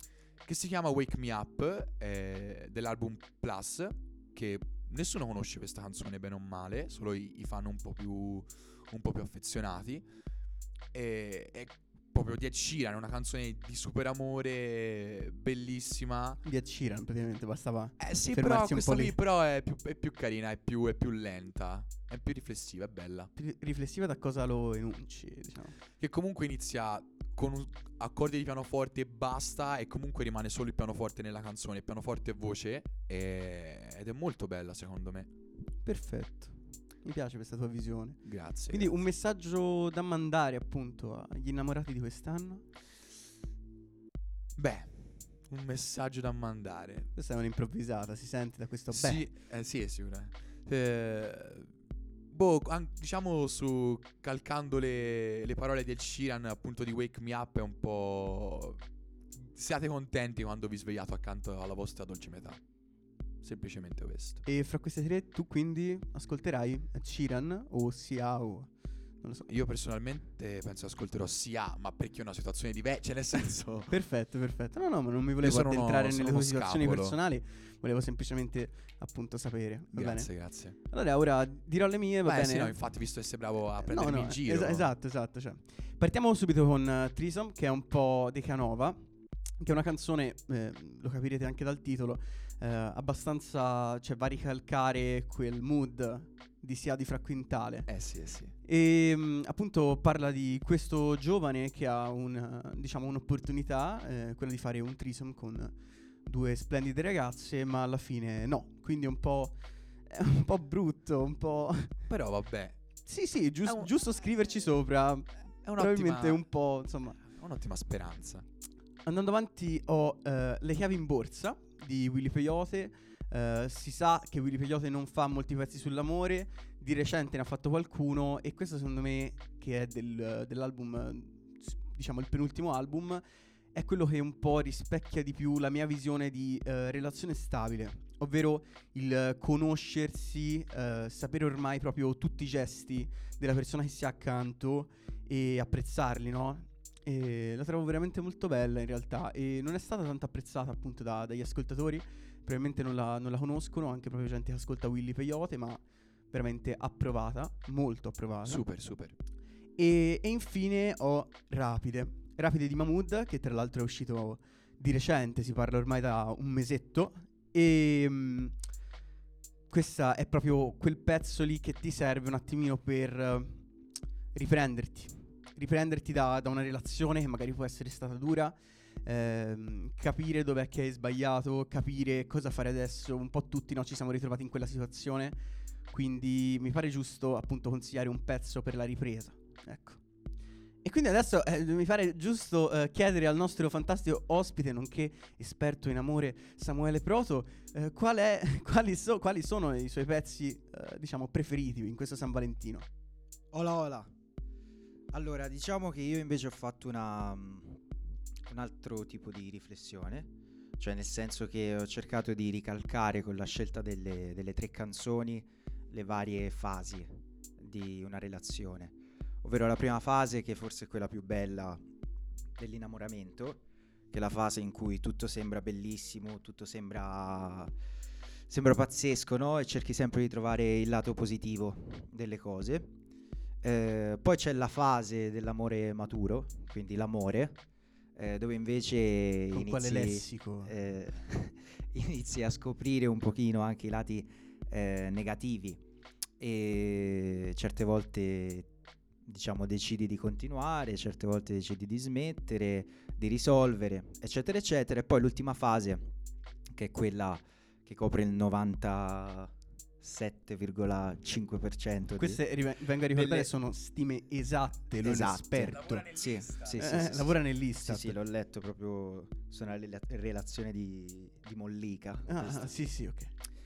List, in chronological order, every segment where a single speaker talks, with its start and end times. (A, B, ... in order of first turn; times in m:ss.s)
0:00.4-0:10.0 A
0:10.9-0:16.4 A
0:16.4-0:19.2 B
0:18.0-0:23.3 A
0:23.4-0:25.8 B
0:26.0-0:35.3 A
0:35.8-0:42.6 B
0:38.2-0:38.9 A
0:44.6-0:47.1 A
0:47.1-0:49.3 B
0:48.9-0:51.7 A
0:52.3-0:58.8 A
0:59.5-1:02.6 A
1:03.4-1:04.4 A
1:04.5-1:09.5 B
1:09.5-1:13.9 A
1:13.9-1:22.9 B
1:15.4-1:17.2 A
1:19.9-1:20.8 A
1:22.2-1:24.9 A
1:23.8-1:29.0 B
1:29.6-1:37.9 B
1:37.9-1:38.5 A
1:38.6-1:52.1 B
1:52.1-1:53.0 A
1:53.0-1:57.2 B
1:55.6-1:56.5 A
1:57.2-1:58.4 A
1:59.0-2:13.2 B
2:13.7-2:38.8 B
2:38.4-2:39.1 A
2:39.8-2:48.6 B
2:49.7-2:53.7 B
2:54.3-3:05.4 B
3:05.9-3:10.0 B
3:10.8-3:22.9 B
3:23.5-3:24.1 C
3:25.1-3:27.8 C
3:28.5-3:41.8 C
3:42.6-3:47.7 C
3:48.5-3:52.9 C
3:53.6-3:57.6 C
3:58.2-4:05.8 C
3:59.5-4:00.8 B
4:06.4-4:08.7 C
4:09.2-4:16.1 C
4:16.7-4:22.4 C
4:22.2-4:26.1 B
4:23.2-4:23.5 C
4:25.0-4:32.7 C
4:26.6-4:28.2 B
4:32.3-4:33.3 B